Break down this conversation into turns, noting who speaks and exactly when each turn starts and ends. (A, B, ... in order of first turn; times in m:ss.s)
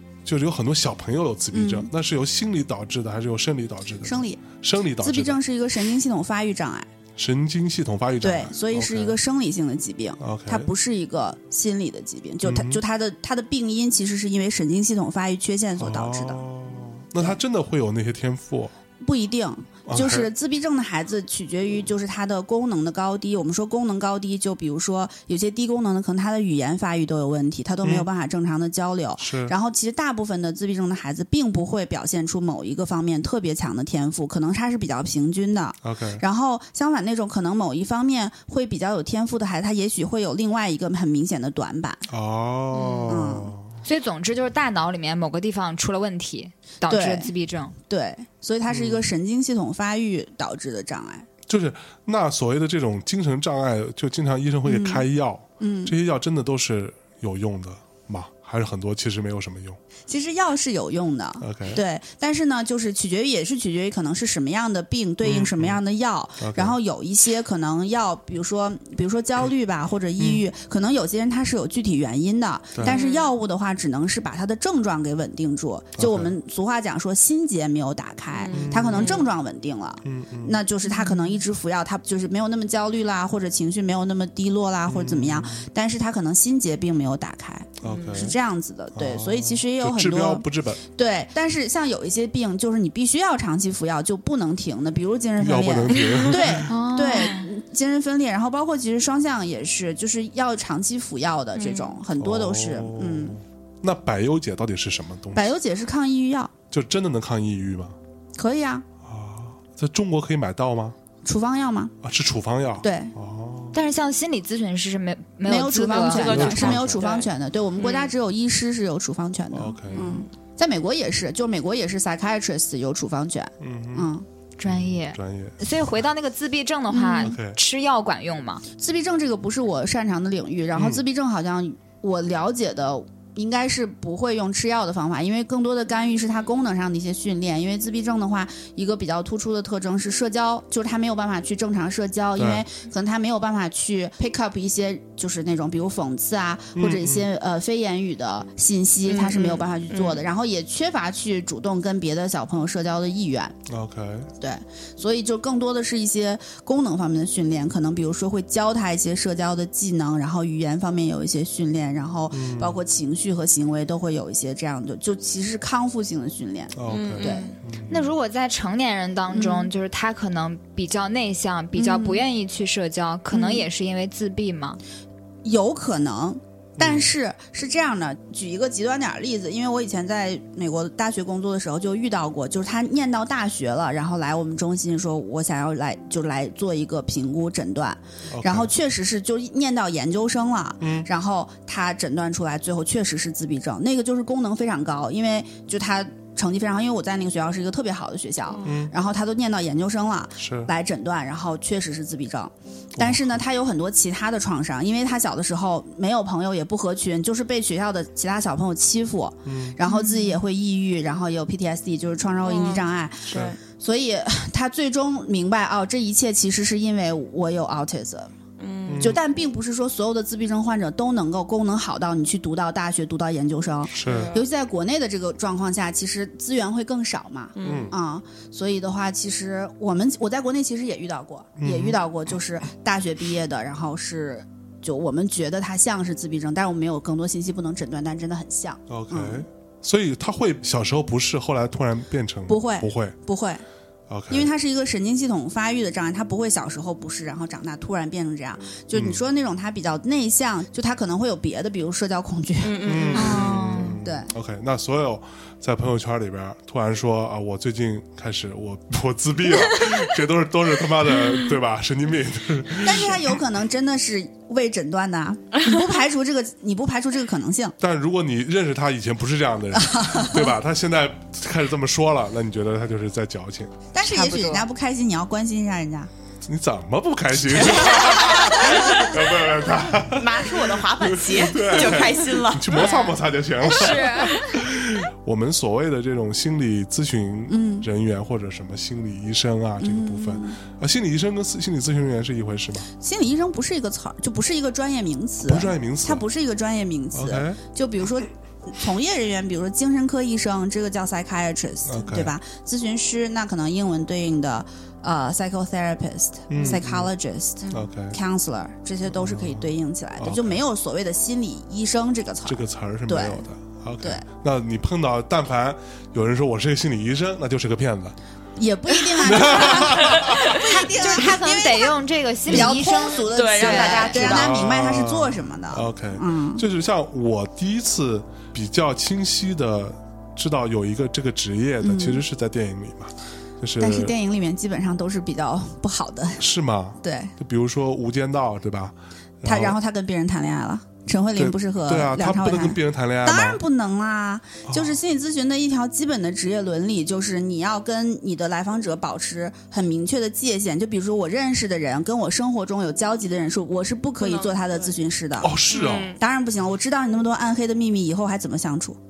0:00.2-0:05.4 A
0:01.5-0:01.9 B
0:04.0-0:04.4 B
0:05.0-0:06.9 B
0:07.2-0:09.2 A
0:08.2-0:16.4 B
0:10.2-0:10.7 A
0:12.4-0:12.8 A
0:15.8-0:18.7 A
0:19.0-0:42.0 B
0:19.9-0:20.3 A
0:29.2-0:29.5 A
0:35.8-0:36.2 A
0:42.1-0:43.8 A
0:42.7-0:43.1 C
0:43.1-0:43.5 B
0:43.8-0:47.7 C
0:46.9-0:47.3 B
0:47.9-0:51.3 B
0:48.7-0:49.0 A
0:51.5-0:59.8 A
0:54.6-0:55.0 B
0:55.6-0:55.9 B
1:00.1-1:43.4 B
1:01.4-1:01.8 A
1:05.2-1:05.8 A
1:06.4-1:06.8 A
1:10.2-1:10.4 A
1:12.7-1:13.0 A
1:12.8-1:13.3 D
1:16.0-1:16.3 A
1:18.4-1:19.2 D
1:18.5-1:19.2 A
1:20.0-1:20.6 A
1:20.9-1:21.3 C
1:24.9-1:25.6 A
1:27.8-1:28.4 A
1:28.9-1:30.8 A
1:35.4-1:36.7 A
1:35.9-1:36.2 D
1:36.7-1:37.5 C
1:41.5-1:42.0 D
1:42.2-1:45.5 A
1:45.3-1:46.5 B
1:46.7-1:48.0 A
1:48.4-1:48.8 B
1:49.0-1:51.0 A
1:51.2-1:51.9 B
1:52.0-1:53.8 A
1:52.8-1:53.1 B
1:53.7-1:56.5 C
1:55.4-2:04.2 B
1:55.9-1:58.1 D
1:56.3-1:57.0 A
1:59.5-2:00.1 A
1:59.9-2:00.2 D
2:03.6-2:04.1 A
2:04.6-2:08.6 C
2:04.6-2:05.6 A
2:06.9-2:07.3 B
2:07.2-2:07.6 A
2:08.8-2:33.5 B
2:10.7-2:11.0 A
2:22.4-2:22.6 A
2:26.7-2:27.3 A
2:29.1-2:30.2 D
2:33.6-2:34.3 A
2:34.4-2:47.5 B
2:42.3-2:42.8 A
2:46.7-2:48.1 A
2:46.9-2:47.6 D
2:47.9-2:54.8 C
2:49.3-2:49.7 B
2:51.8-2:52.2 B
2:53.3-2:53.7 B
2:55.4-3:38.3 B
2:56.8-2:57.1 A
3:08.3-3:08.7 A
3:10.8-3:11.1 A
3:18.6-3:18.9 A
3:20.4-3:20.7 A
3:23.0-3:23.4 A
3:29.4-3:29.8 A
3:29.9-3:30.3 C
3:32.4-3:33.6 D
3:38.6-3:39.1 D
3:38.9-3:39.2 A
3:39.0-3:59.4 B
3:44.0-3:44.3 A
3:44.0-3:44.4 D
3:47.6-3:47.9 D
3:47.6-3:47.9 A
3:51.6-3:52.0 A
3:58.9-4:03.1 A
4:02.5-4:03.6 B
4:04.1-4:04.5 A
4:04.3-4:14.3 B
4:08.9-4:09.2 A
4:12.6-4:13.6 D
4:12.8-4:23.4 A
4:13.2-4:14.0 C
4:22.8-4:27.8 B
4:27.8-4:33.7 A
4:29.7-4:30.5 B
4:33.9-4:36.1 B
4:34.0-4:34.7 C
4:36.4-4:52.9 A
4:37.7-4:39.0 D
4:40.1-4:42.8 D
4:42.7-4:44.6 C
4:47.5-4:47.9 B
4:49.8-4:50.6 B
4:53.0-5:13.4 B
4:55.4-4:56.2 A
4:57.1-4:57.6 A
5:01.8-5:02.3 A
5:06.5-5:07.1 A
5:07.7-5:08.2 A
5:09.1-5:10.6 A
5:12.4-5:18.2 A
5:18.6-5:26.6 B
5:19.2-5:20.6 A
5:20.0-5:20.3 D
5:20.6-5:24.2 C
5:22.5-5:24.5 D
5:24.1-5:34.1 A
5:31.8-5:32.2 B
5:33.8-5:36.4 B
5:36.4-5:39.8 A
5:37.0-5:37.3 B
5:39.4-5:59.0 B
5:41.4-5:43.6 A
5:44.6-5:45.0 A
5:54.2-5:54.9 D
5:55.4-5:56.1 A
5:55.7-5:56.2 D